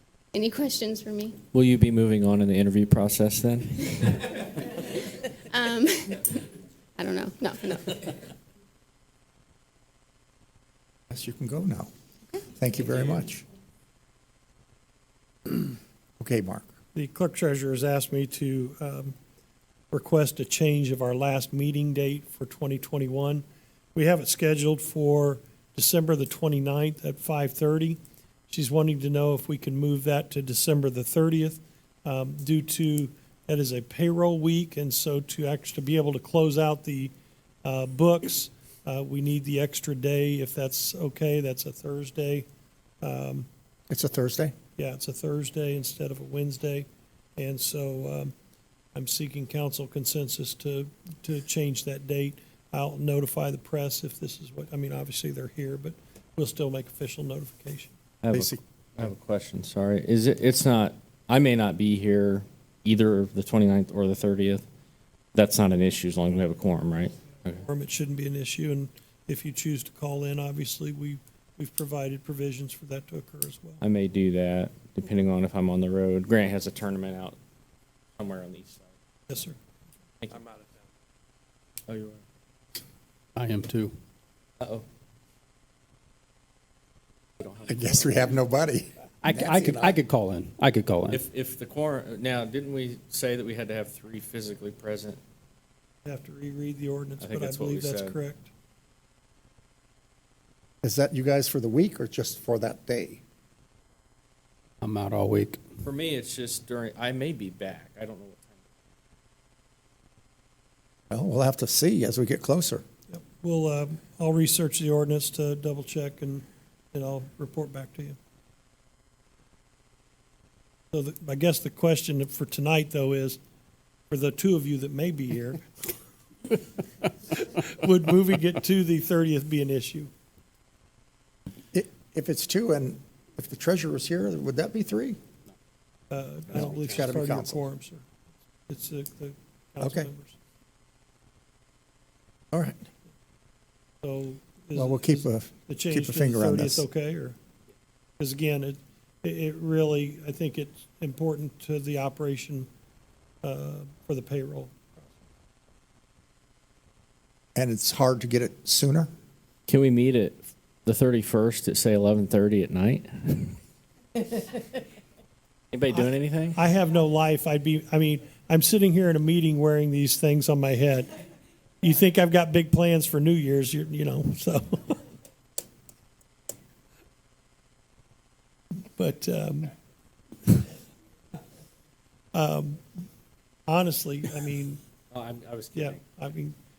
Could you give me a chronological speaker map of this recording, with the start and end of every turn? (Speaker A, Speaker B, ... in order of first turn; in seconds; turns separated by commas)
Speaker A: 0.3-1.4, Speaker B: 1.5-4.3, Speaker A: 5.5-6.5, Speaker A: 7.0-8.2, Speaker C: 11.1-11.9, Speaker C: 12.6-13.4, Speaker C: 16.2-16.7, Speaker D: 16.9-19.2, Speaker D: 19.9-42.5, Speaker D: 43.0-43.5, Speaker C: 43.9-44.5, Speaker D: 44.8-48.3, Speaker D: 48.9-57.9, Speaker B: 58.2-64.7, Speaker C: 58.3-58.6, Speaker B: 65.3-67.6, Speaker D: 67.6-73.8, Speaker B: 73.8-77.4, Speaker B: 78.2-78.8, Speaker D: 79.3-79.6, Speaker B: 81.9-82.2, Speaker E: 83.3-84.0, Speaker C: 87.7-90.0, Speaker E: 89.2-91.2, Speaker B: 91.1-95.2, Speaker D: 96.0-98.5, Speaker B: 97.2-98.2, Speaker C: 100.8-103.2, Speaker E: 104.8-105.6, Speaker B: 105.8-108.5, Speaker C: 111.1-112.8, Speaker D: 113.1-118.2, Speaker D: 120.9-123.4, Speaker D: 124.1-125.9, Speaker D: 127.3-130.1, Speaker C: 131.7-135.2, Speaker D: 136.1-138.1, Speaker C: 136.5-137.6, Speaker D: 138.7-140.4, Speaker C: 139.8-140.1, Speaker C: 142.5-142.8, Speaker D: 144.0-147.4, Speaker C: 144.8-146.8, Speaker D: 148.2-152.7, Speaker D: 153.4-155.1, Speaker C: 157.6-159.1, Speaker B: 159.7-163.6, Speaker B: 165.7-166.6, Speaker D: 165.9-171.1, Speaker D: 171.8-175.0, Speaker D: 178.8-179.7, Speaker D: 182.3-182.8, Speaker D: 183.7-184.8, Speaker B: 185.1-186.0, Speaker D: 185.7-186.6